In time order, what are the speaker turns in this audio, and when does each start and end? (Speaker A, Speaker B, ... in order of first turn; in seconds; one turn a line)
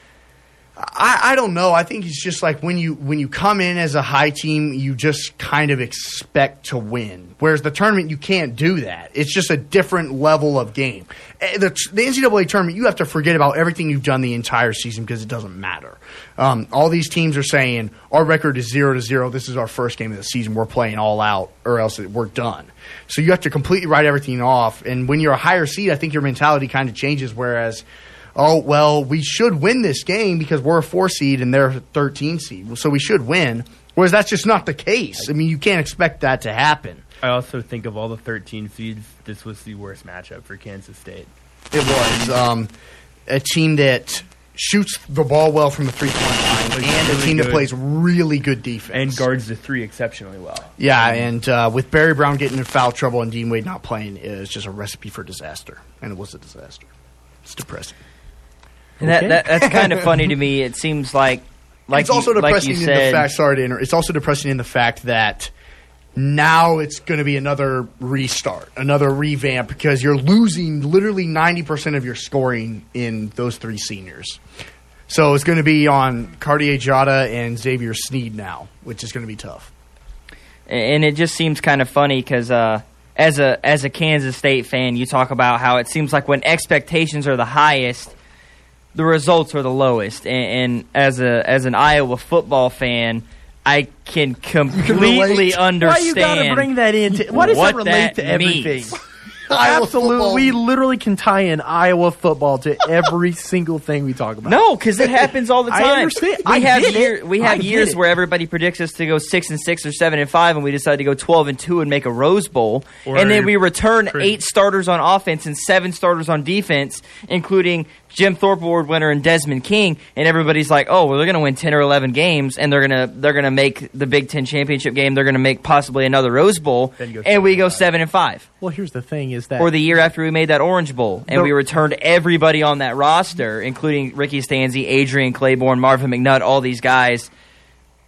Speaker A: 0.8-27.8
Speaker A: 28.4-37.0
Speaker B: 37.2-41.3
Speaker A: 41.7-42.7
Speaker A: 43.3-49.2
Speaker B: 46.7-47.7
Speaker B: 48.9-51.2
Speaker A: 50.8-56.9
Speaker A: 57.4-58.0
Speaker C: 59.0-59.6
Speaker D: 59.0-63.3
Speaker A: 59.6-60.0
Speaker A: 61.9-65.5
Speaker A: 66.2-74.4
Speaker A: 75.1-79.7
Speaker D: 80.7-88.1
Speaker D: 88.9-96.7
Speaker A: 94.7-95.6
Speaker C: 95.8-99.0
Speaker D: 97.3-99.0
Speaker A: 99.5-100.6
Speaker C: 99.5-104.6
Speaker D: 104.4-128.4
Speaker C: 105.7-108.0
Speaker B: 113.0-114.4
Speaker B: 127.0-127.9
Speaker C: 128.6-129.7
Speaker D: 129.6-137.3